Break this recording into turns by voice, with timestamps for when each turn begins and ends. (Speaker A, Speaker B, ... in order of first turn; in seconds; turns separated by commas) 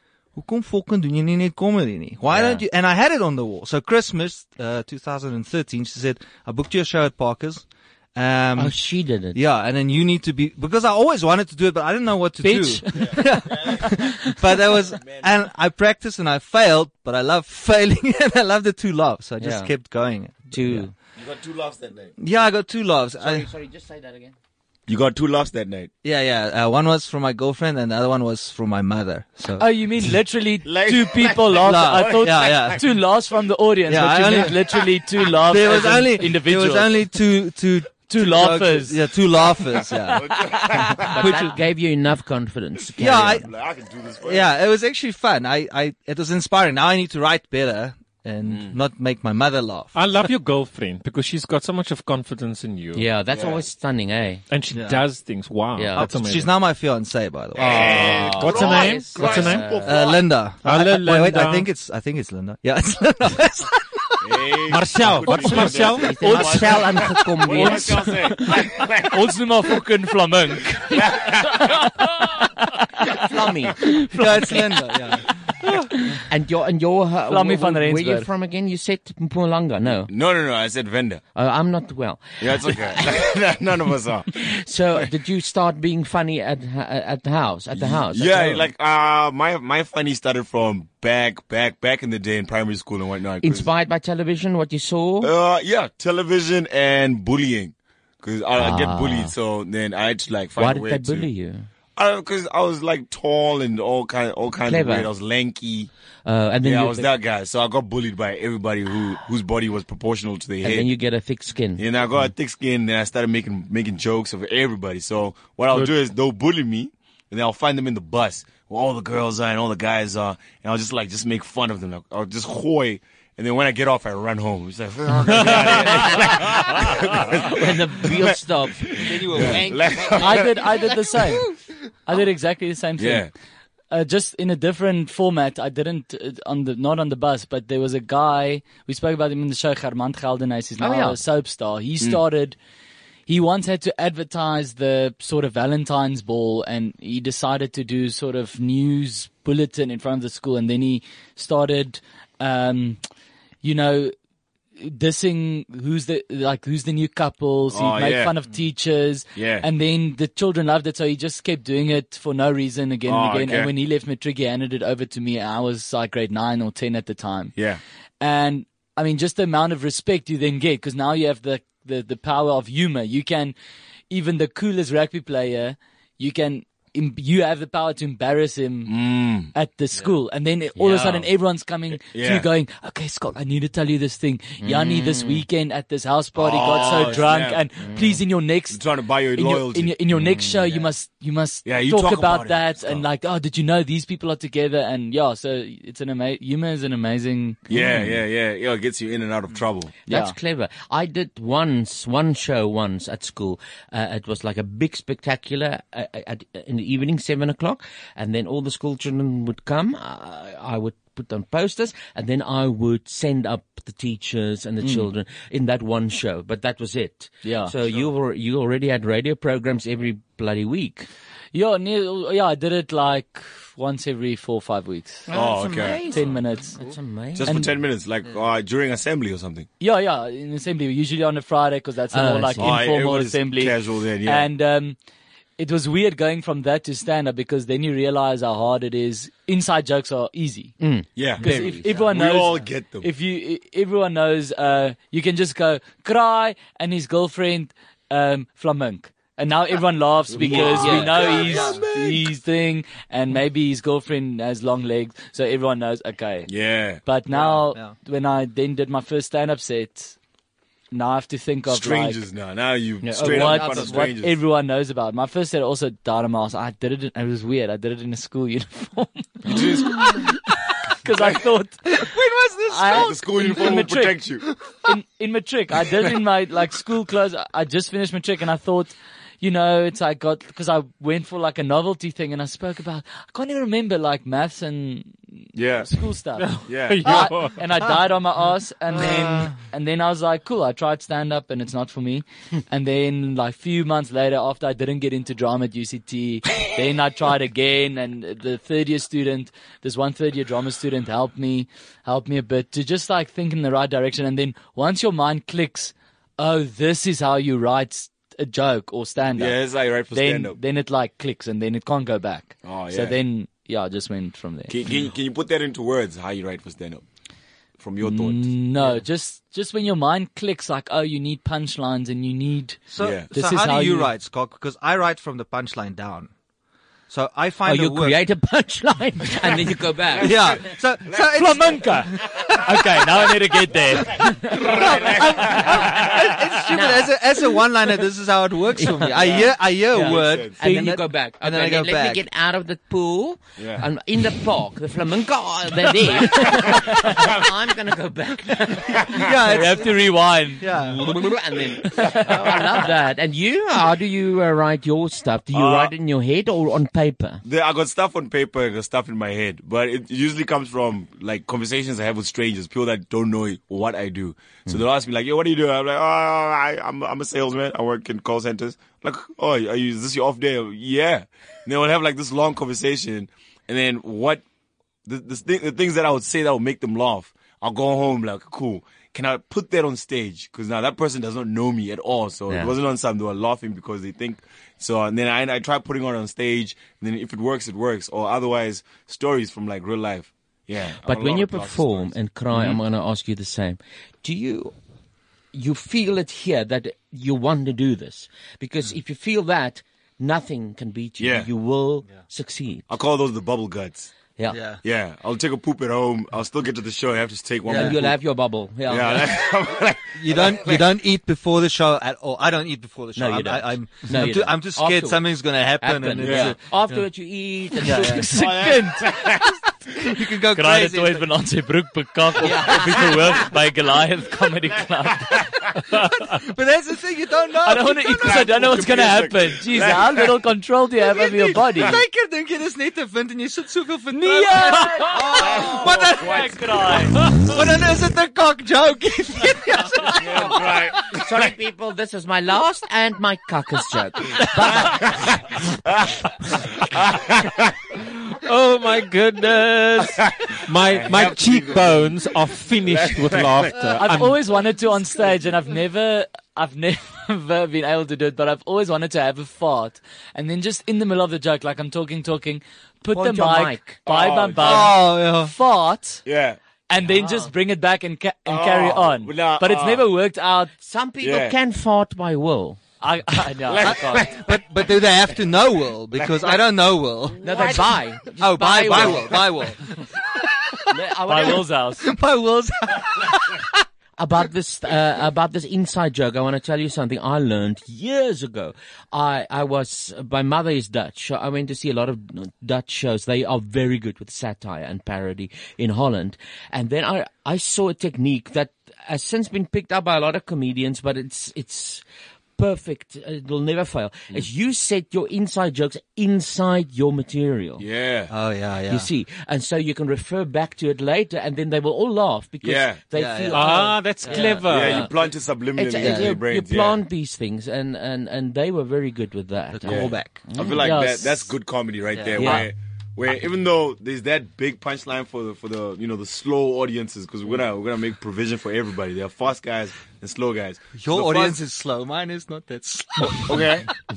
Speaker A: 0.3-8.8, Speaker B: 2.3-2.6, Speaker B: 8.6-9.4, Speaker A: 9.3-20.9, Speaker C: 12.4-13.9, Speaker D: 12.9-13.9, Speaker D: 14.9-15.3, Speaker B: 19.4-19.7, Speaker B: 20.5-20.9, Speaker D: 21.2-22.1, Speaker A: 22.2-23.5, Speaker B: 23.2-24.3, Speaker D: 24.9-25.9, Speaker A: 26.0-29.6, Speaker C: 29.6-37.1, Speaker D: 30.6-32.8, Speaker A: 31.6-32.8, Speaker A: 33.9-34.6, Speaker A: 35.5-40.3, Speaker C: 38.1-39.0, Speaker D: 40.0-41.4, Speaker B: 41.0-43.5, Speaker A: 41.2-41.5, Speaker A: 43.0-43.5, Speaker D: 43.1-44.5, Speaker A: 44.2-50.0, Speaker D: 48.4-48.8, Speaker E: 49.9-53.0, Speaker B: 52.9-54.4, Speaker D: 53.3-53.6, Speaker E: 54.5-56.5, Speaker A: 54.7-55.0, Speaker B: 55.8-56.1, Speaker A: 56.0-58.3, Speaker B: 57.5-60.0, Speaker D: 57.5-60.3, Speaker E: 58.4-59.8, Speaker A: 59.9-64.1, Speaker E: 60.6-61.7, Speaker D: 64.2-69.2, Speaker E: 64.7-66.9, Speaker B: 65.8-68.2, Speaker C: 67.5-72.5, Speaker D: 70.9-71.7, Speaker B: 73.2-73.8, Speaker C: 73.8-74.8, Speaker A: 74.1-75.2, Speaker B: 76.2-80.1, Speaker C: 77.3-78.3, Speaker D: 80.1-81.2, Speaker B: 81.3-83.3, Speaker D: 82.4-84.3, Speaker B: 84.3-88.7, Speaker D: 87.7-93.7, Speaker B: 93.4-95.3, Speaker D: 95.2-101.3, Speaker B: 98.5-99.3, Speaker B: 100.5-101.7, Speaker D: 102.0-105.9, Speaker B: 104.6-105.1, Speaker B: 106.2-107.1, Speaker D: 106.6-110.9, Speaker B: 110.6-111.8, Speaker D: 111.8-130.5, Speaker B: 125.4-126.4, Speaker B: 127.4-130.1, Speaker A: 129.1-130.2, Speaker C: 130.2-131.5, Speaker C: 132.0-133.3, Speaker D: 133.0-133.3, Speaker C: 133.9-142.6, Speaker B: 140.8-141.2, Speaker C: 143.3-153.0, Speaker C: 153.6-154.1, Speaker C: 154.8-167.5, Speaker D: 157.7-158.3, Speaker D: 159.3-159.7, Speaker D: 163.1-163.7, Speaker D: 167.6-167.8, Speaker C: 168.2-173.5, Speaker C: 174.1-197.6, Speaker D: 178.9-179.5, Speaker B: 180.8-181.3, Speaker D: 182.1-182.5, Speaker B: 184.6-185.4, Speaker D: 186.3-187.6, Speaker B: 187.8-188.2, Speaker D: 188.7-190.0, Speaker B: 190.2-190.8, Speaker D: 191.6-193.1, Speaker D: 197.7-199.9, Speaker B: 197.7-198.2, Speaker B: 200.1-221.1, Speaker C: 200.1-200.3, Speaker C: 214.8-215.1, Speaker C: 217.4-217.7, Speaker C: 221.5-225.3, Speaker B: 225.3-227.5, Speaker D: 225.3-226.1, Speaker C: 226.0-226.8, Speaker D: 227.3-229.7, Speaker C: 227.4-227.7, Speaker C: 229.8-235.0, Speaker B: 232.1-232.8, Speaker D: 232.6-234.5, Speaker C: 235.6-240.8, Speaker B: 240.8-242.0, Speaker D: 241.1-243.1, Speaker C: 241.4-256.5, Speaker D: 250.3-251.9, Speaker B: 250.4-251.5, Speaker A: 250.5-251.9, Speaker D: 256.5-257.0, Speaker C: 257.1-260.2, Speaker A: 257.3-257.9, Speaker C: 260.9-262.2, Speaker D: 261.7-264.4, Speaker B: 263.1-263.8, Speaker A: 263.2-263.9, Speaker C: 263.2-270.4, Speaker D: 269.4-269.9, Speaker C: 271.0-272.0, Speaker A: 271.9-273.1, Speaker C: 272.7-314.7, Speaker D: 272.9-274.4, Speaker D: 285.5-285.9, Speaker D: 286.6-287.3, Speaker E: 286.7-287.6, Speaker A: 289.0-289.5, Speaker D: 309.4-310.6, Speaker D: 312.6-313.1, Speaker D: 314.7-317.0, Speaker D: 317.8-318.5, Speaker C: 318.0-324.1, Speaker A: 322.9-326.3, Speaker D: 323.0-323.3, Speaker A: 327.1-328.2, Speaker B: 327.6-330.3, Speaker D: 330.1-331.8, Speaker A: 330.2-331.6, Speaker C: 331.4-334.7, Speaker D: 332.4-332.9, Speaker D: 333.9-336.6, Speaker A: 334.6-342.2, Speaker B: 336.7-337.1, Speaker B: 338.8-349.0, Speaker D: 339.1-340.6, Speaker D: 343.6-343.9, Speaker D: 346.6-347.4, Speaker D: 349.0-349.3, Speaker A: 349.2-350.0, Speaker C: 349.5-350.6, Speaker A: 350.6-351.0, Speaker B: 350.9-357.4, Speaker D: 355.5-355.9, Speaker D: 357.4-374.4, Speaker D: 375.1-392.8, Speaker B: 382.5-382.7, Speaker B: 391.0-394.7, Speaker B: 395.5-402.9, Speaker D: 401.2-401.5, Speaker D: 402.9-404.1, Speaker A: 404.5-404.8, Speaker D: 404.8-408.1, Speaker A: 407.6-408.0, Speaker B: 407.7-409.4, Speaker D: 408.9-410.9, Speaker A: 410.2-417.0, Speaker B: 413.1-415.2, Speaker B: 415.8-418.2, Speaker D: 416.2-416.6, Speaker A: 417.8-418.3, Speaker C: 418.0-419.4, Speaker D: 418.3-419.5, Speaker A: 420.0-421.3, Speaker C: 420.5-425.4, Speaker A: 422.4-422.8, Speaker D: 422.8-423.4, Speaker D: 425.2-425.4, Speaker A: 426.3-428.4, Speaker C: 427.6-432.0, Speaker D: 428.1-430.4, Speaker A: 431.1-436.4, Speaker C: 434.1-437.2, Speaker D: 435.4-436.3, Speaker A: 437.4-440.4, Speaker D: 440.1-441.5, Speaker B: 440.4-445.1, Speaker D: 444.7-447.7, Speaker E: 448.3-454.4, Speaker D: 450.0-452.2, Speaker D: 452.9-453.8, Speaker C: 454.0-466.2, Speaker B: 463.1-464.0, Speaker D: 464.1-465.0, Speaker A: 464.6-465.5, Speaker D: 466.2-466.6, Speaker C: 466.9-470.7, Speaker B: 467.1-467.5, Speaker D: 468.5-470.1, Speaker B: 470.8-472.8, Speaker D: 471.2-471.5, Speaker C: 473.0-474.3, Speaker D: 473.6-474.5, Speaker A: 473.8-480.1, Speaker D: 476.2-476.6, Speaker B: 477.4-479.7, Speaker B: 480.9-481.6, Speaker C: 481.3-482.1, Speaker A: 481.5-483.8, Speaker B: 484.2-502.0, Speaker B: 502.6-507.8, Speaker D: 507.8-508.3, Speaker A: 508.3-509.1, Speaker B: 508.9-515.1, Speaker D: 512.6-513.1, Speaker A: 513.1-514.6, Speaker E: 513.5-515.1, Speaker D: 514.6-517.0, Speaker B: 515.8-520.8, Speaker A: 516.0-516.4, Speaker A: 519.7-520.4, Speaker D: 519.8-531.6, Speaker C: 520.8-521.5, Speaker A: 522.1-522.6, Speaker B: 522.4-522.7, Speaker A: 531.0-533.7, Speaker D: 533.2-533.9